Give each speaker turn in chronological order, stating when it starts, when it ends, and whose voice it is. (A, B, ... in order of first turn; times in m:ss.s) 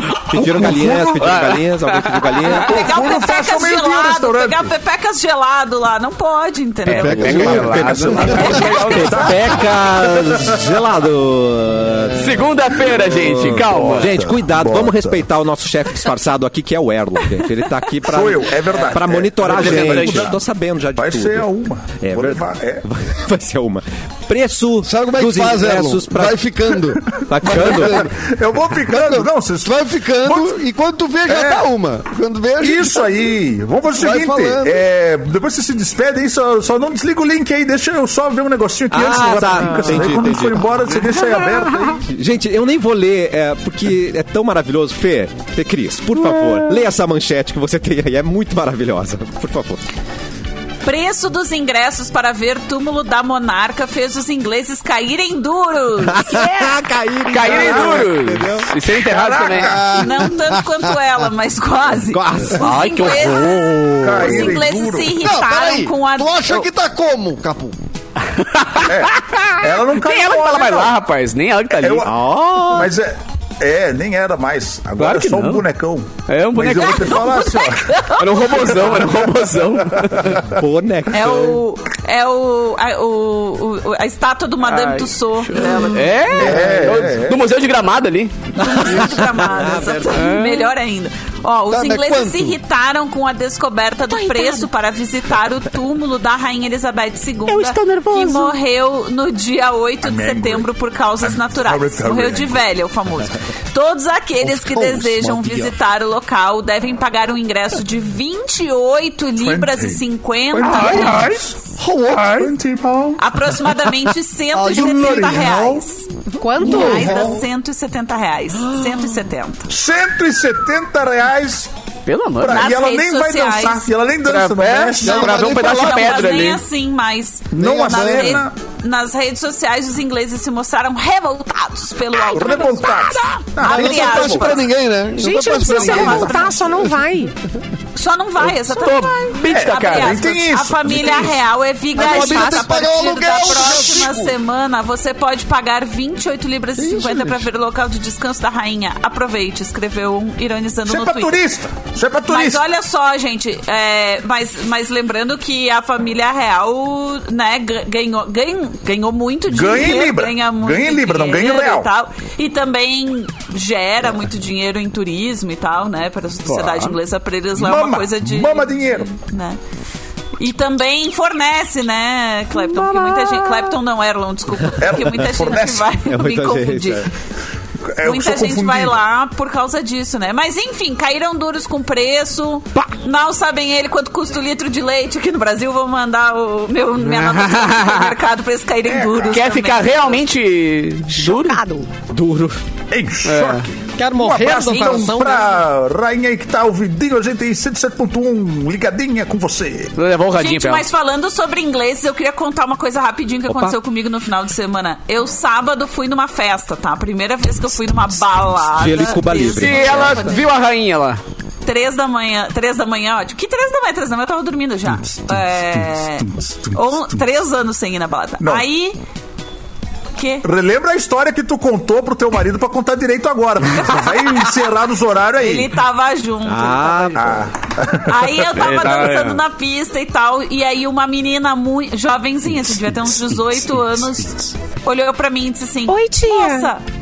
0:00.3-0:02.9 A
0:00.4-0:02.6 B
0:00.8-0:01.1 C
0:02.5-0:04.7 C
0:02.5-0:07.7 D
0:06.8-0:09.3 B
0:06.9-0:08.4 E
0:07.0-0:26.4 A
0:07.4-0:10.7 C
0:08.3-0:09.3 D
0:12.1-0:14.2 B
0:13.6-0:15.2 C
0:18.0-0:20.4 C
0:19.4-0:20.3 B
0:20.9-0:22.8 C
0:24.8-0:28.1 E
0:27.2-0:28.1 A
0:27.5-0:30.5 C
0:28.9-0:33.1 E
0:31.3-0:31.6 C
0:32.6-0:42.0 C
0:34.0-0:34.8 E
0:38.9-0:40.7 A
0:42.0-0:49.8 A
0:50.8-0:56.7 D
0:56.0-0:58.7 A
0:57.3-0:59.8 B
0:57.5-0:58.0 C
0:58.9-0:59.9 C
0:59.6-1:00.8 E
0:59.9-1:06.7 D
1:02.1-1:02.7 A
1:02.6-1:03.9 B
1:04.0-1:05.2 C
1:05.2-1:07.8 E
1:08.3-1:12.1 B
1:08.8-1:11.0 C
1:11.7-1:18.0 C
1:12.0-1:12.9 A
1:15.0-1:15.6 B
1:16.3-1:17.2 B
1:16.8-1:19.0 D
1:18.1-1:20.4 B
1:20.4-1:21.6 A
1:21.1-1:26.5 D
1:24.6-1:28.4 B
1:26.4-1:27.4 C
1:28.6-1:30.2 A
1:28.6-1:51.4 D
1:30.1-1:30.7 B
1:31.7-1:32.6 E
1:34.1-1:34.7 F
1:37.5-1:38.5 B
1:40.0-1:40.7 C
1:41.2-1:42.6 C
1:44.4-1:45.6 E
1:49.4-1:51.5 C
1:50.8-1:51.3 B
1:51.8-1:52.5 E
1:52.1-1:53.2 C
1:53.2-1:56.1 D
1:54.5-1:55.8 C
1:56.4-1:57.4 F
1:56.6-1:59.7 D
1:56.6-1:57.4 E
1:59.7-2:01.7 C
2:02.1-2:02.6 B
2:02.4-2:05.3 C
2:02.5-2:03.9 D
2:04.2-2:06.6 B
2:05.0-2:06.4 E
2:05.2-2:14.7 D
2:07.5-2:08.5 C
2:07.6-2:08.4 E
2:12.3-2:14.6 C
2:13.6-2:16.8 E
2:15.1-2:17.3 F
2:15.6-2:16.8 D
2:17.9-2:31.4 D
2:18.4-2:20.2 B
2:19.4-2:21.4 C
2:22.0-2:22.6 F
2:22.0-2:24.3 E
2:26.8-2:27.4 E
2:30.8-2:32.6 C
2:32.3-2:49.6 D
2:39.5-2:41.9 C
2:46.4-2:47.0 B
2:47.5-2:49.1 C
2:50.4-2:57.1 D
2:54.8-2:56.0 C
2:56.0-2:57.1 A
2:57.8-2:59.0 C
2:58.0-3:10.2 D
3:07.0-3:08.1 B
3:08.8-3:09.4 C
3:09.3-3:11.6 B
3:11.1-3:11.9 F
3:12.1-3:12.5 A
3:12.9-3:19.9 C
3:13.2-3:13.6 B
3:13.9-3:15.6 F
3:14.7-3:15.2 D
3:19.9-3:20.8 B
3:20.3-3:30.4 D
3:23.5-3:23.8 A
3:28.7-3:30.4 A
3:29.5-3:31.2 B
3:31.6-3:39.0 D
3:35.1-3:35.4 C
3:36.2-3:37.0 C
3:38.4-3:38.6 C
3:40.2-3:40.4 D
3:40.4-3:45.7 C
3:45.4-3:47.2 D
3:46.4-3:47.5 A
3:47.2-3:48.3 C
3:48.0-3:56.8 D
3:48.5-3:49.4 B
3:55.9-3:56.7 F